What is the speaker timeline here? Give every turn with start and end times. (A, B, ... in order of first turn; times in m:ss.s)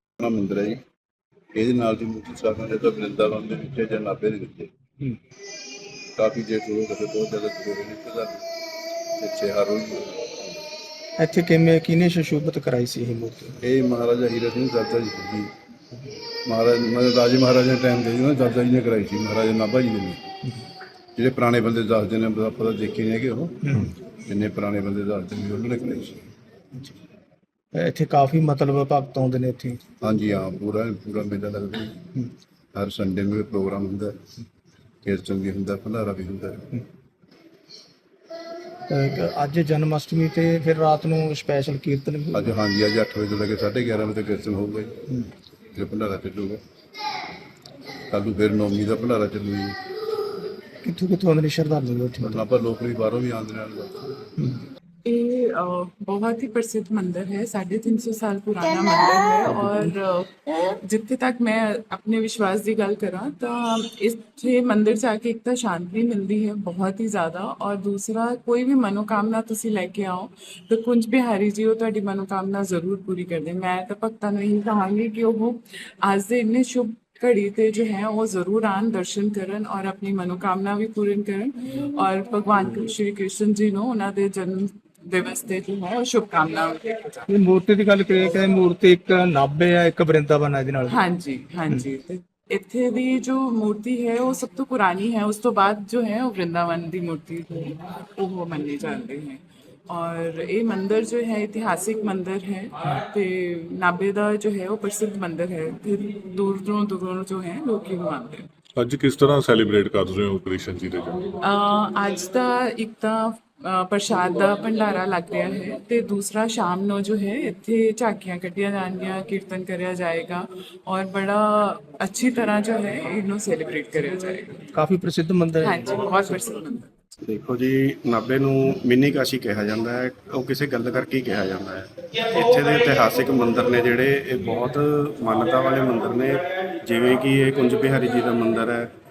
0:00.2-0:00.8 A
0:01.5-0:04.7 A
0:06.2-0:08.4 A
0:09.2-0:10.4 A
0:11.2-0:13.5 B
0:13.6-0:15.5 A
0:16.5-0:20.2 A
0:21.2-0:26.2 A
0:27.7-0:29.8 B
0:30.0-0:32.0 A
0:32.7-0:34.2 A
0:35.0-0:36.7 A
0:38.9-0:42.4 B
0:42.3-0:45.0 A
0:45.7-0:46.6 A
0:48.1-0:49.8 A
0:50.8-0:52.4 B
0:52.2-0:54.1 A
0:55.0-1:27.3 C
1:27.3-1:31.0 B
1:30.8-1:48.4 C
1:48.8-1:51.2 D
1:51.4-2:04.6 C
2:04.7-2:05.8 B
2:05.6-2:06.9 C
2:07.2-2:18.9 E